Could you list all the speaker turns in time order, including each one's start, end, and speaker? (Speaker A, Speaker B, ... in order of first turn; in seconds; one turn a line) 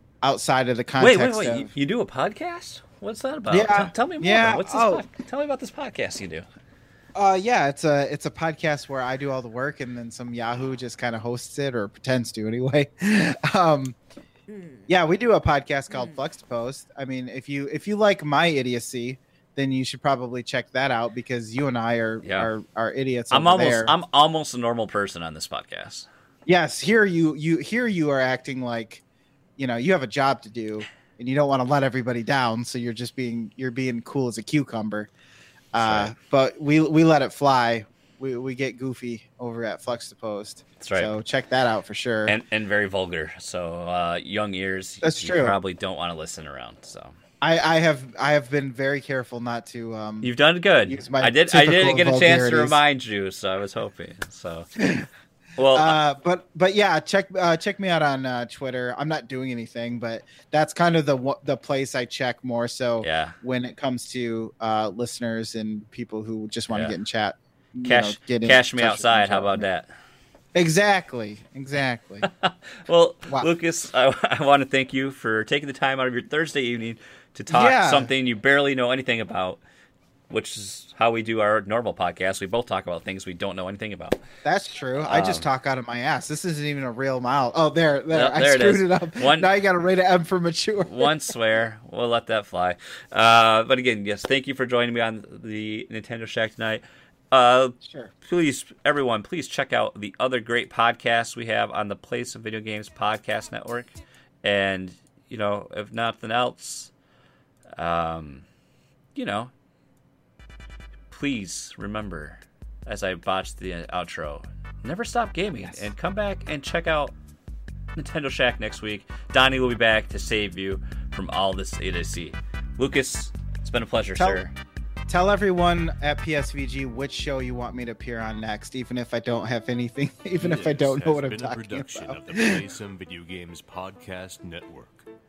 Speaker A: 0.2-1.7
Speaker B: 1.0-6.5
Speaker A: 3.5-5.0
Speaker A: 7.1-14.0
Speaker A: 14.9-23.9
Speaker B: 22.2-22.5
Speaker B: 23.3-26.1
Speaker A: 26.4-29.0
Speaker A: 29.6-35.1
Speaker A: 35.7-42.3
Speaker B: 35.8-36.1
Speaker B: 40.8-41.1
Speaker B: 42.2-47.2
Speaker A: 45.0-45.5
Speaker A: 47.4-50.3
Speaker B: 50.2-54.7
Speaker A: 50.9-52.8
Speaker A: 54.8-55.0
Speaker B: 55.6-56.0
Speaker A: 55.7-69.7
Speaker B: 63.0-63.4
Speaker B: 66.7-67.0
Speaker B: 67.8-69.9
Speaker A: 70.5-72.2
Speaker B: 72.2-79.6
Speaker A: 77.5-78.1
Speaker B: 80.3-84.2
Speaker A: 84.4-91.1
Speaker B: 85.0-85.4
Speaker B: 88.1-89.5
Speaker B: 90.8-103.9
Speaker A: 97.8-98.1
Speaker B: 104.4-106.9
Speaker B: 107.8-108.5
Speaker B: 109.1-109.5
Speaker B: 111.1-117.1
Speaker B: 117.9-124.5
Speaker A: 125.1-132.6
Speaker C: 130.3-135.0